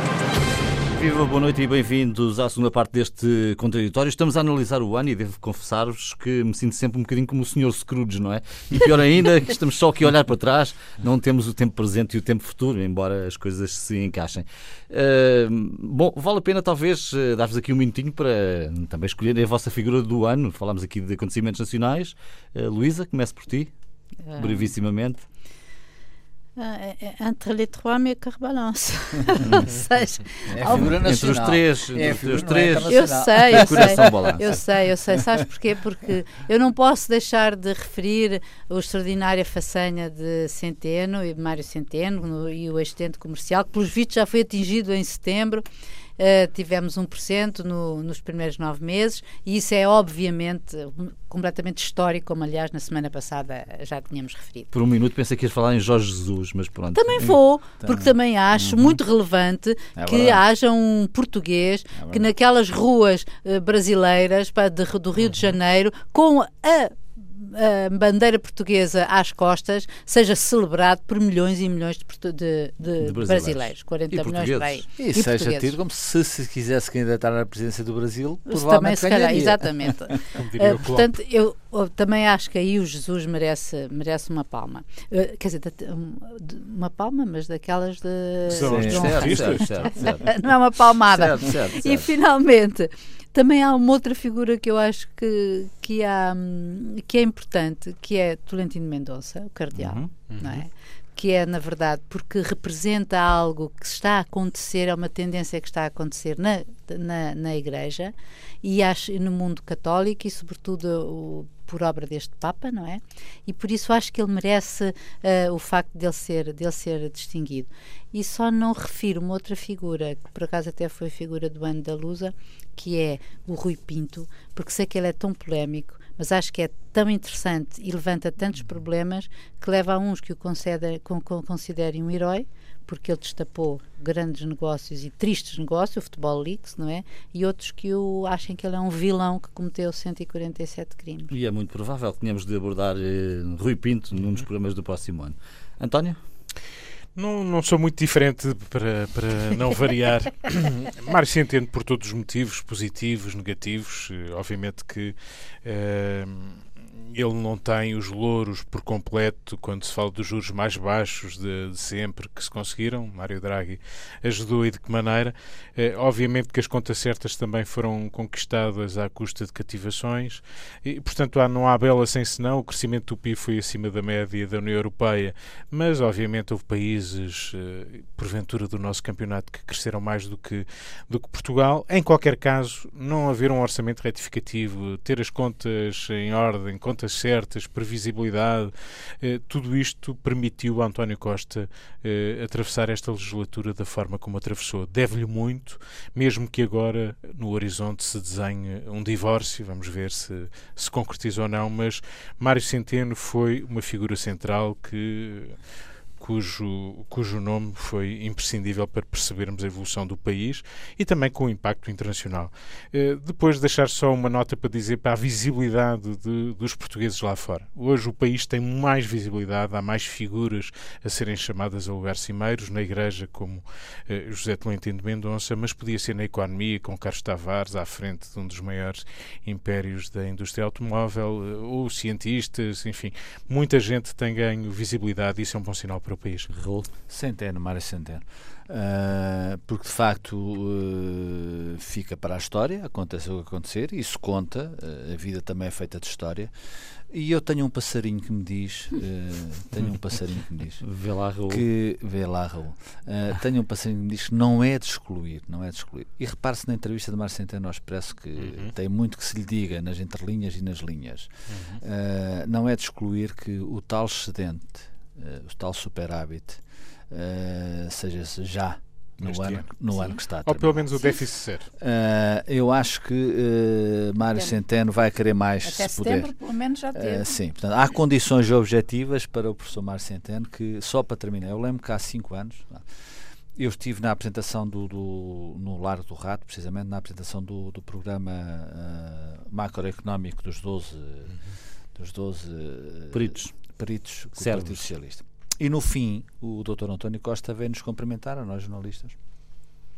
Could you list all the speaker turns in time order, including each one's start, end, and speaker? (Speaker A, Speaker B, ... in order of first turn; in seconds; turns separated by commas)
Speaker A: 0.9-23.7, Speaker B: 24.3-24.7, Speaker A: 24.4-25.2, Speaker B: 26.6-31.1, Speaker C: 30.5-34.2, Speaker A: 30.6-34.6, Speaker B: 32.9-45.6, Speaker B: 46.2-54.7, Speaker A: 54.7-57.4, Speaker B: 56.9-75.8, Speaker C: 57.8-58.1, Speaker A: 58.7-59.0, Speaker C: 60.0-60.4, Speaker C: 62.0-62.3, Speaker A: 73.0-74.8, Speaker C: 75.0-80.1, Speaker B: 78.5-141.3, Speaker D: 80.3-81.1, Speaker D: 88.5-90.1, Speaker A: 88.7-90.4, Speaker C: 88.7-89.3, Speaker A: 91.1-92.1, Speaker A: 99.8-100.1, Speaker D: 100.3-100.7, Speaker A: 141.3-146.2, Speaker D: 147.2-205.6, Speaker D: 206.2-236.5, Speaker A: 236.5-236.9, Speaker C: 237.1-246.5, Speaker C: 247.1-250.8, Speaker A: 250.8-251.6, Speaker C: 251.5-271.1, Speaker D: 258.4-258.7, Speaker D: 261.5-261.8, Speaker D: 269.2-269.7, Speaker B: 269.9-270.2, Speaker D: 270.4-271.7, Speaker C: 271.8-276.3, Speaker B: 275.6-277.3, Speaker C: 276.9-282.8, Speaker C: 283.6-291.4, Speaker C: 291.9-299.2, Speaker A: 293.1-293.5, Speaker A: 294.4-294.8